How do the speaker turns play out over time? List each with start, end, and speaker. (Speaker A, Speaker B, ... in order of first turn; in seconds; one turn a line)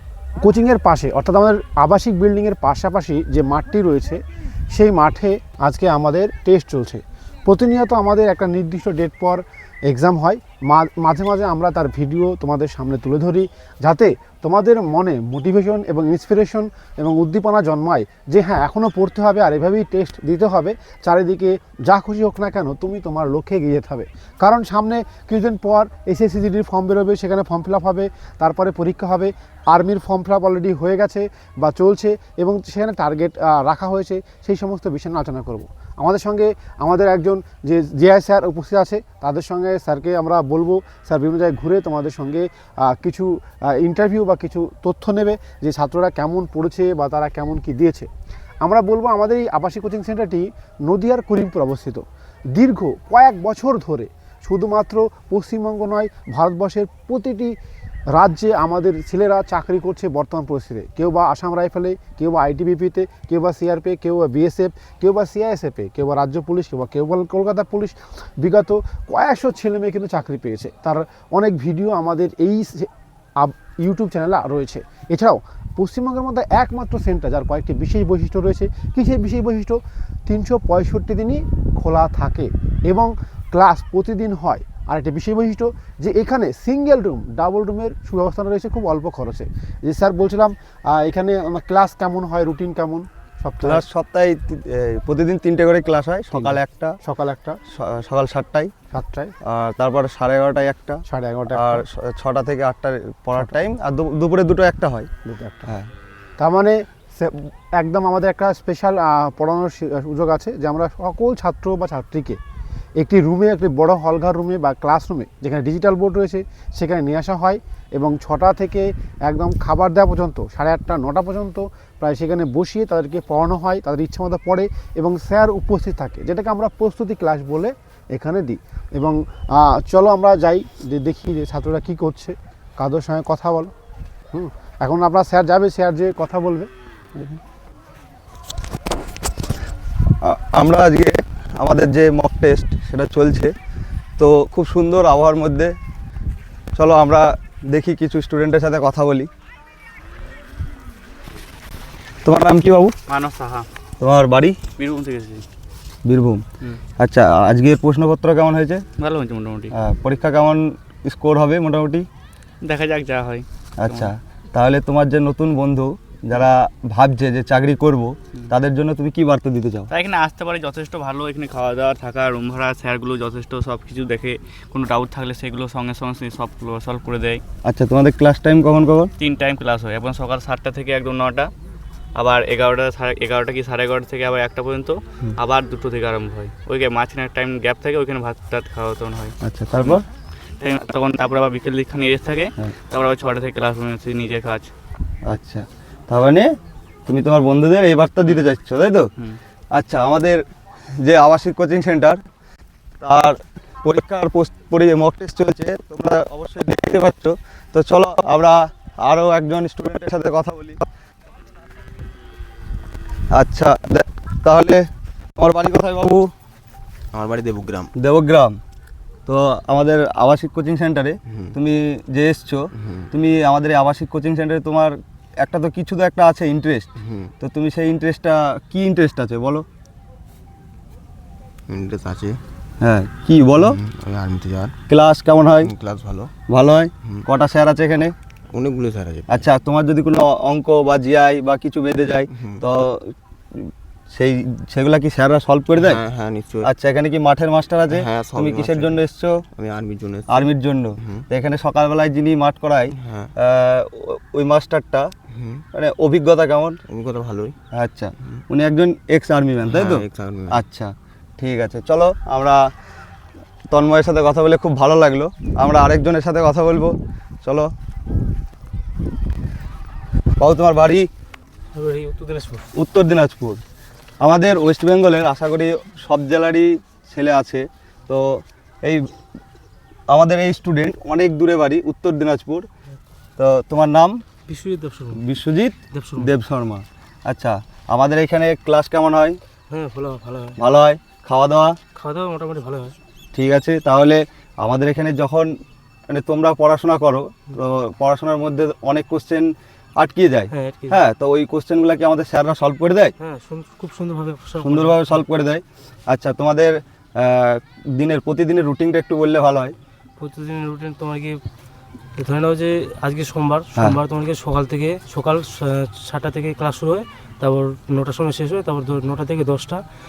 Speaker A: 0.4-48.1
Speaker A: 48.6-57.5
Speaker A: 58.1-93.8
Speaker B: 93.6-97.0
Speaker A: 96.3-97.6
Speaker B: 97.7-98.7
Speaker A: 98.9-99.3
Speaker B: 99.4-101.0
Speaker A: 101.1-101.8
Speaker B: 101.5-105.1
Speaker A: 105.2-105.7
Speaker A: 106.4-112.4
Speaker A: 113.0-133.7
Speaker A: 134.3-137.4
Speaker B: 140.2-143.5
Speaker B: 144.2-145.7
Speaker B: 146.8-149.3
Speaker B: 152.2-152.9
Speaker C: 153.1-153.7
Speaker B: 154.0-154.6
Speaker C: 154.8-155.4
Speaker B: 156.0-156.4
Speaker B: 157.0-158.8
Speaker C: 159.0-159.7
Speaker B: 159.7-162.1
Speaker C: 162.6-164.1
Speaker B: 163.8-169.9
Speaker C: 169.9-177.4
Speaker B: 177.6-179.1
Speaker C: 179.2-181.5
Speaker C: 182.2-190.0
Speaker B: 189.4-190.0
Speaker C: 190.6-194.7
Speaker B: 195.3-196.5
Speaker B: 197.1-199.1
Speaker B: 199.7-200.4
Speaker B: 201.0-202.2
Speaker B: 203.0-210.8
Speaker B: 213.3-214.8
Speaker B: 215.4-216.3
Speaker D: 217.1-217.9
Speaker B: 218.0-218.6
Speaker B: 219.2-226.9
Speaker D: 221.3-221.5
Speaker D: 222.8-223.1
Speaker D: 227.0-227.3
Speaker B: 227.4-229.6
Speaker D: 231.7-232.4
Speaker B: 232.8-233.8
Speaker D: 233.6-234.7
Speaker B: 234.9-235.7
Speaker D: 235.6-236.3
Speaker B: 236.5-238.1
Speaker D: 238.5-239.3
Speaker B: 239.3-246.0
Speaker D: 242.3-242.6
Speaker D: 245.8-246.7
Speaker B: 246.6-249.4
Speaker D: 247.9-251.2
Speaker B: 250.3-255.1
Speaker D: 252.9-253.3
Speaker D: 255.3-255.6
Speaker B: 255.7-256.8
Speaker D: 256.9-257.5
Speaker B: 257.7-262.6
Speaker D: 259.7-260.6
Speaker B: 263.7-267.7
Speaker B: 270.4-271.1
Speaker E: 271.7-272.7
Speaker B: 272.8-273.6
Speaker B: 274.2-279.1
Speaker B: 280.1-282.6
Speaker B: 283.4-284.2
Speaker E: 284.5-285.2
Speaker B: 285.2-289.4
Speaker E: 285.9-286.3
Speaker E: 289.7-290.6
Speaker B: 290.6-291.7
Speaker E: 291.9-292.9
Speaker B: 293.3-295.5
Speaker B: 296.1-303.1
Speaker E: 300.5-301.0
Speaker E: 303.2-305.2
Speaker B: 304.6-309.7
Speaker E: 310.2-311.4
Speaker E: 312.2-319.8